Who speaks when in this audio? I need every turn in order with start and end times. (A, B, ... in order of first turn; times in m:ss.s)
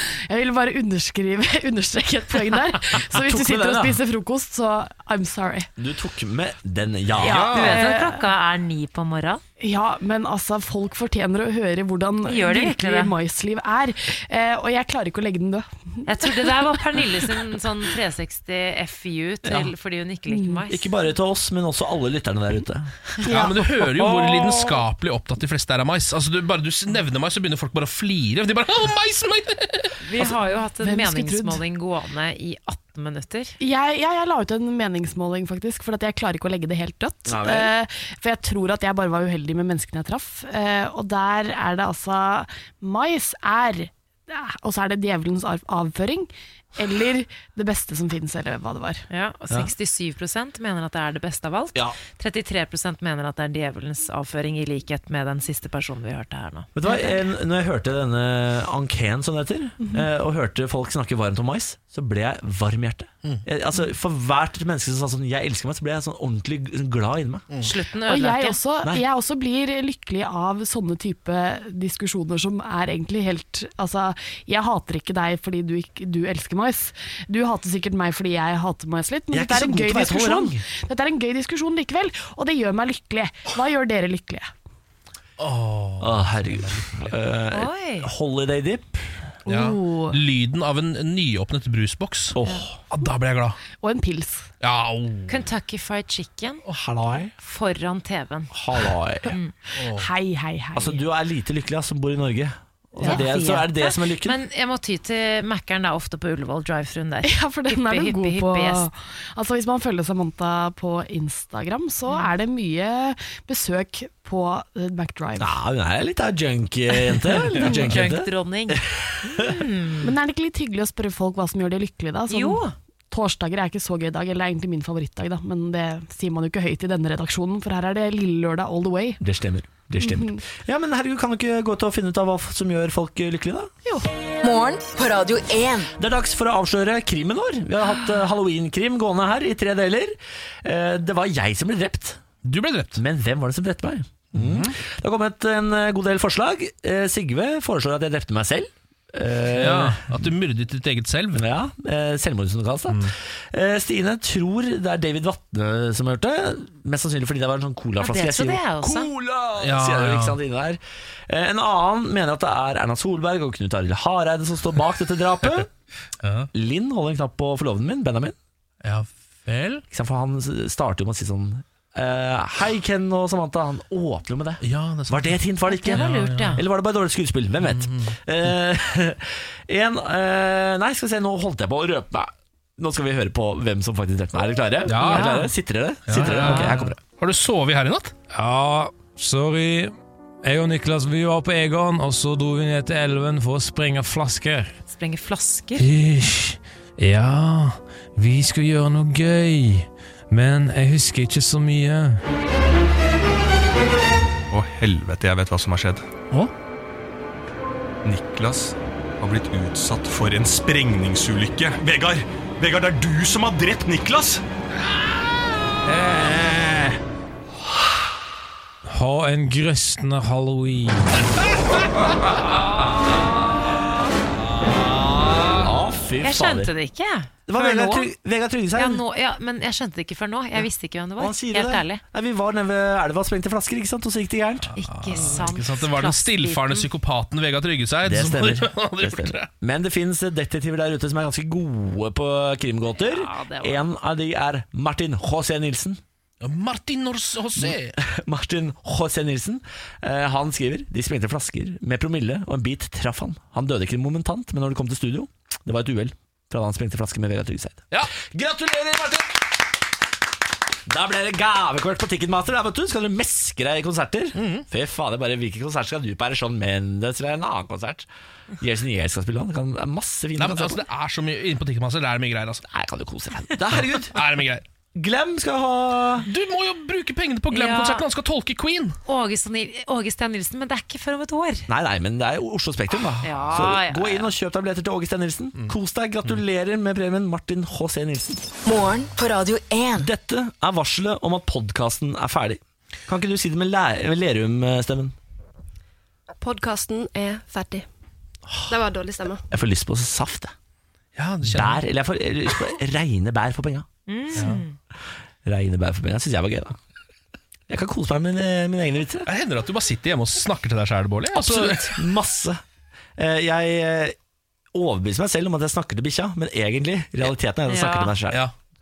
0:00.3-0:05.7 A
0:03.0-0:04.0 B
0:05.8-0:07.6 B
0:07.2-0:09.4 C
0:07.2-0:08.2 A
0:07.4-0:07.7 D
0:09.6-0:17.3 A
0:12.3-0:13.1 C
0:16.1-0:20.9 C
0:19.4-0:19.7 B
0:20.3-0:20.6 A
0:20.7-0:24.5 B
0:23.2-0:23.7 A
0:23.2-0:30.0 D
0:30.0-0:33.6 C
0:30.8-0:31.6 A
0:33.6-0:49.1 A
0:37.3-0:37.7 B
0:49.1-0:57.2 C
0:56.7-1:07.5 B
1:07.6-1:08.6 C
1:08.0-1:24.5 A
1:19.3-1:20.6 B
1:25.4-1:27.1 D
1:26.0-1:29.3 B
1:27.5-1:28.1 C
1:29.5-1:30.2 A
1:29.5-1:32.4 D
1:32.3-1:32.8 B
1:32.9-1:33.6 D
1:33.8-1:34.5 A
1:34.6-1:35.4 D
1:35.3-1:36.6 C
1:36.7-1:37.3 B
1:37.4-1:38.5 C
1:38.5-1:39.4 B
1:39.2-1:39.5 C
1:39.8-1:40.1 D
1:39.8-1:41.0 A
1:40.8-1:44.4 B
1:43.0-1:43.5 A
1:43.0-1:48.8 C
1:47.2-1:55.5 A
1:55.4-1:59.5 B
1:56.9-2:00.1 C
2:00.0-2:09.2 A
2:02.3-2:02.7 C
2:09.2-2:13.7 B
2:10.0-2:10.4 A
2:14.4-2:15.9 E
2:16.0-2:22.2 B
2:22.4-2:23.0 D
2:22.9-2:30.3 B
2:24.3-2:24.7 D
2:29.4-2:31.4 D
2:31.3-2:45.7 B
2:38.0-2:39.1 C
2:39.6-2:40.4 D
2:46.2-2:46.5 D
2:46.5-2:48.4 B
2:48.8-2:49.8 D
2:49.9-3:07.0 B
2:54.6-2:56.6 D
2:55.7-2:56.6 C
2:57.6-2:58.2 D
3:04.9-3:05.5 D
3:05.0-3:05.5 C
3:06.1-3:08.2 D
3:08.3-3:14.7 F
3:14.9-3:15.9 C
3:15.8-3:22.2 F
3:24.5-3:26.0 G
3:28.0-3:34.4 G
3:38.9-3:41.2 F
3:44.6-3:46.7 B
3:46.2-3:48.1 C
3:47.5-3:49.0 B
3:48.7-3:52.0 C
3:51.2-3:55.4 B
3:54.8-3:56.9 C
3:54.8-3:59.5 D
3:58.0-4:06.0 B
4:03.0-4:03.8 C
4:06.4-4:08.0 D
4:07.6-4:19.4 B
4:20.9-4:28.1 B
4:24.4-4:24.7 D
4:28.6-4:30.8 B
4:30.4-4:32.7 D
4:32.6-4:34.2 B
4:33.7-4:34.6 D
4:34.9-4:36.3 B
4:36.3-4:39.0 D
4:37.5-4:38.0 C
4:39.1-4:41.7 C
4:41.7-4:48.4 B
4:43.2-4:44.3 C
4:45.6-4:46.4 D
4:48.6-4:50.1 E
4:50.0-4:55.2 B
4:56.4-4:57.9 H
4:58.7-4:59.4 H
4:59.5-5:00.5 B
5:01.2-5:01.8 D
5:01.4-5:03.9 B
5:04.1-5:04.8 C
5:05.4-5:06.8 B
5:07.7-5:09.3 B
5:09.3-5:12.1 D
5:11.3-5:12.6 B
5:13.2-5:14.2 B
5:14.7-5:18.4 B
5:17.6-5:18.1 C